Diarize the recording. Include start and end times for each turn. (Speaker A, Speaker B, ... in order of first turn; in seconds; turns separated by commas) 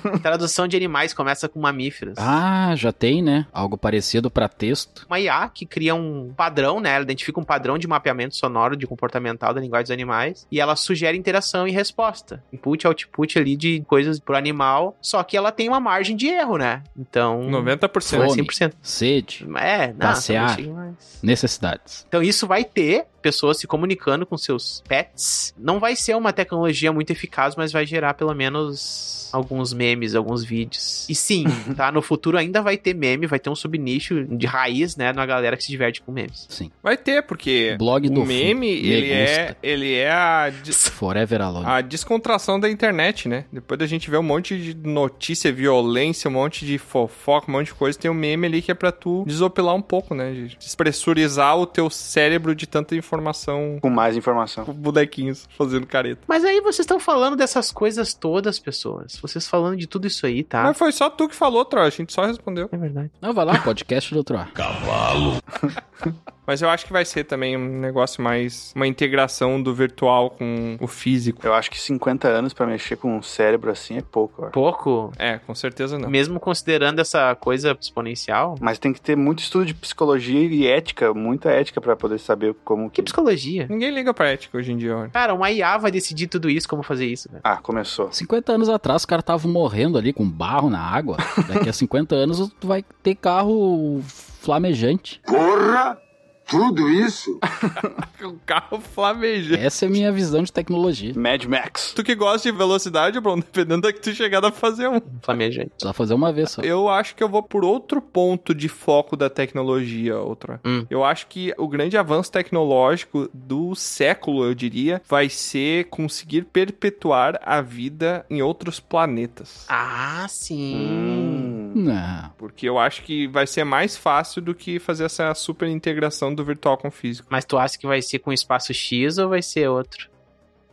Speaker A: 0.2-2.4, Speaker B: 2.2-5.1, Speaker A: 5.1-18.8, Speaker C: 17.5-18.3, Speaker B: 18.1-19.4, Speaker A: 19.4-21.2, Speaker B: 20.0-20.6, Speaker B: 21.2-22.1, Speaker A: 22.1-36.5, Speaker C: 36.8-40.8, Speaker B: 37.7-39.6, Speaker B: 40.8-41.8, Speaker C: 41.6-53.8, Speaker D: 53.8-54.7, Speaker C: 54.7-56.2, Speaker A: 56.3-60.8, Speaker C: 60.6-62.7, Speaker A: 62.7-63.1, Speaker B: 63.2-64.5, Speaker C: 66.5-71.5, Speaker D: 71.4-74.5, Speaker A: 74.5-75.2, Speaker C: 75.2-76.1, Speaker A: 76.0-78.6, Speaker D: 78.6-83.1, Speaker A: 83.0-83.7, Speaker C: 83.7-85.2, Speaker A: 85.2-87.4, Speaker D: 87.4-88.1, Speaker B: 88.1-95.2, Speaker C: 98.0-99.7, Speaker B: 99.5-101.2, Speaker D: 101.2-102.0, Speaker C: 102.0-105.1, Speaker A: 105.1-105.8, Speaker B: 105.8-106.7, Speaker C: 106.6-119.7, Speaker A: 110.6-110.9, Speaker A: 119.7-121.5, Speaker D: 120.7-121.8, Speaker B: 121.7-122.3, Speaker C: 122.4-127.2, Speaker A: 127.3-130.1